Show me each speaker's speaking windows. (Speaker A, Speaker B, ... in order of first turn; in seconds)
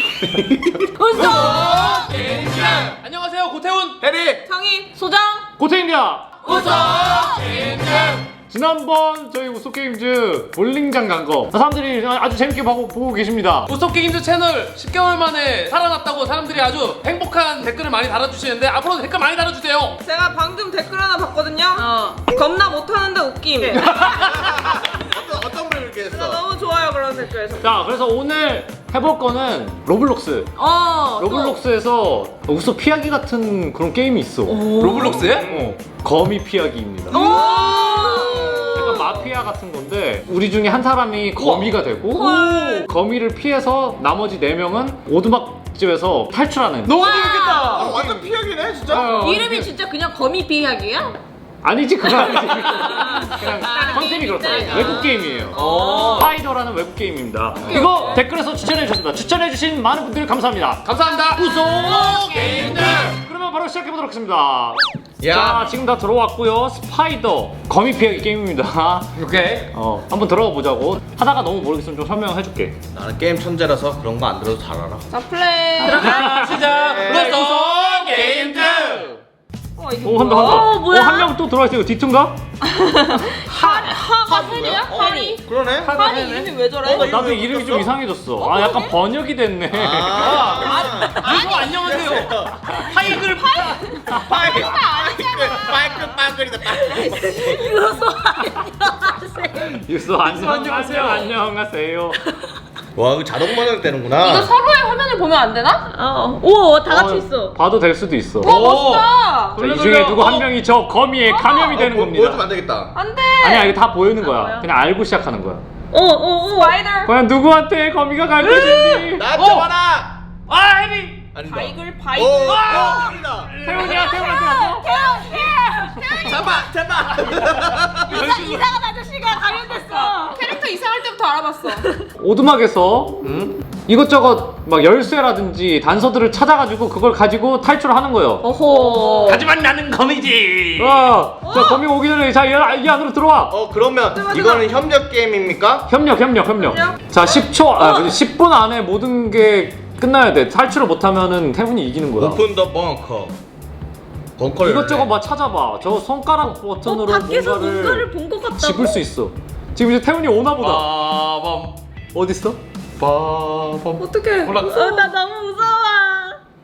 Speaker A: 0.4-0.8, 4.0-4.4, 24.0-26.4, 35.4-35.7, 47.7-49.2, 65.2-65.7, 72.9-75.1, 76.7-77.5, 78.2-79.0, 84.2-86.0, 87.0-87.9, 89.7-92.6, 94.1-97.7, 103.0-104.5, 111.7-112.9, 119.2-120.1, 121.3-123.5, 126.2-128.2, 143.5-145.9, 152.2-153.3, 154.4-155.1
Speaker B: 1.0-2.1, 5.0-5.5, 6.6-7.4, 21.8-22.3, 30.6-31.6, 34.5-35.4, 37.1-39.1, 42.1-42.9, 47.0-47.8, 48.9-51.2, 52.8-56.2, 61.8-62.7, 75.9-76.6, 80.3-81.3, 84.9-85.4, 91.2-91.5, 93.5-94.1, 96.9-99.8, 105.9-107.6, 115.9-116.8, 123.8-126.6, 128.1-130.6, 138.4-139.5, 156.8-159.0, 164.6-166.4
Speaker C: 1.1-4.0, 6.5-8.2, 13.7-20.0, 23.8-24.3, 34.6-35.7, 37.2-38.3, 41.4-41.7, 46.9-48.0, 49.0-49.5, 55.5-56.3, 57.6-58.2, 60.9-63.1, 69.2-69.7, 75.9-79.2, 85.8-87.0, 90.2-93.9, 100.2-101.3, 108.4-110.4, 119.3-119.7, 120.5-121.2, 122.5-123.1, 123.6-123.9, 128.1-128.7, 133.2-133.6, 139.0-141.1, 160.6-161.8, 163.0-165.2
Speaker D: 4.5-5.0, 20.0-24.1, 26.1-27.7, 37.1-39.1, 42.4-42.8, 54.6-55.0, 57.7-58.2, 75.1-76.3, 79.8-80.7, 82.9-87.8, 88.4-88.9, 90.6-91.7, 94.4-95.7, 104.2-105.9, 108.4-109.6, 111.3-111.7, 113.0-114.6, 116.6-117.1, 118.4-119.2, 121.4-123.1, 124.7-125.5, 126.1-126.5, 128.1-128.5, 129.4-132.0, 138.6-139.3, 141.4-141.8, 144.1-144.7, 146.6-147.4, 164.0-165.0
Speaker E: 5.6-6.6, 8.5-13.7, 27.6-30.5, 31.1-37.3, 38.6-47.0, 48.9-49.7, 51.6-69.2, 69.7-72.8, 75.8-77.4, 80.0-82.4, 83.5-83.9, 86.8-90.6, 93.9-94.6, 99.6-102.2, 106.8-108.6, 109.6-112.5, 113.4-115.6, 117.1-119.3, 123.6-124.9, 132.2-133.2, 133.9-138.5, 140.8-143.6, 145.9-152.4, 154.6-160.9, 162.1-162.6